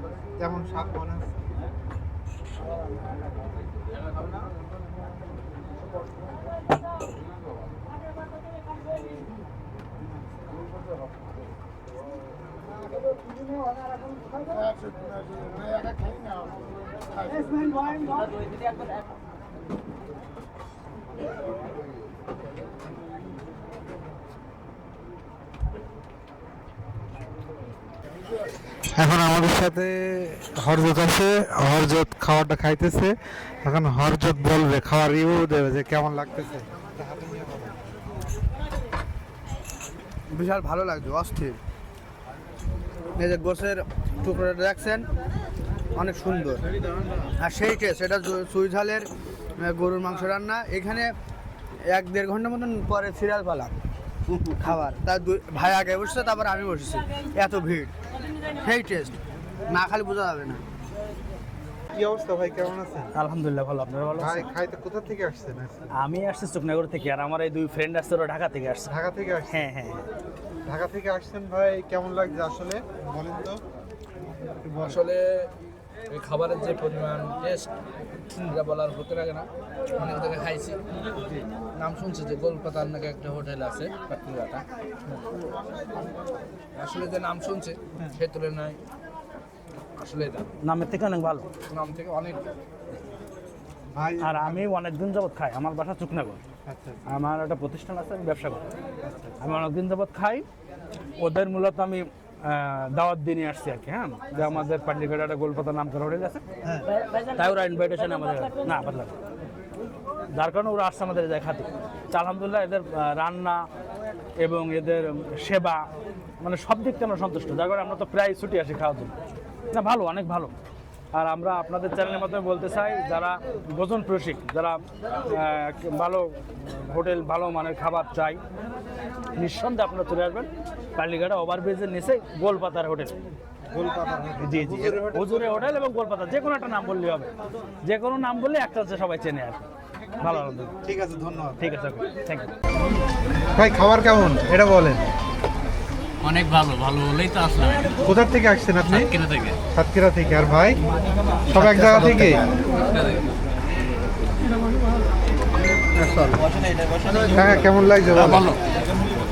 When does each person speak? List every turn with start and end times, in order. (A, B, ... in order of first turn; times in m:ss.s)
0:00.4-0:01.4 A
0:28.9-0:37.9 A
0:40.3-0:41.6 B
0:43.2-0:45.1 B
0:45.9-0:46.6 B
0:47.4-0:51.1 B
0:51.9-0:53.7 B
0:54.4-0:57.9 B
0:58.5-1:00.6 B
1:01.9-1:03.1 A
1:03.1-1:04.5 C
1:04.2-1:05.8 A
1:05.9-1:08.9 C
1:08.9-1:09.7 A
1:09.5-1:10.1 C
1:10.7-1:13.6 A
1:14.6-1:15.0 A
1:14.8-1:15.5 D
1:16.1-1:17.7 D
1:18.4-1:20.8 D
1:21.7-1:24.6 D
1:26.7-1:28.8 D
1:30.0-1:30.5 D
1:30.6-1:31.5 C
1:31.6-1:32.5 D
1:33.9-1:34.6 A
1:34.2-1:36.4 C
1:36.6-1:37.0 A
1:37.0-1:38.6 C
1:39.0-1:39.3 A
1:39.4-1:40.4 C
1:41.2-1:46.4 C
1:44.3-1:44.7 A
1:47.1-1:49.1 C
1:50.3-1:53.6 C
1:54.4-1:55.8 C
1:56.4-1:59.1 C
1:59.7-2:00.5 C
2:01.1-2:08.4 C
2:09.4-2:13.2 C
2:13.7-2:15.7 A
2:14.4-2:17.3 C
2:17.8-2:19.7 C
2:20.2-2:20.7 C
2:20.8-2:21.6 A
2:21.6-2:22.5 C
2:23.6-2:25.1 A
2:26.2-2:27.9 E
2:28.0-2:29.1 A
2:28.9-2:29.6 E
2:29.7-2:30.8 A
2:31.5-2:32.4 A
2:31.5-2:32.4 D
2:36.0-2:36.4 A
2:37.3-2:38.5 A
2:38.1-2:38.6 E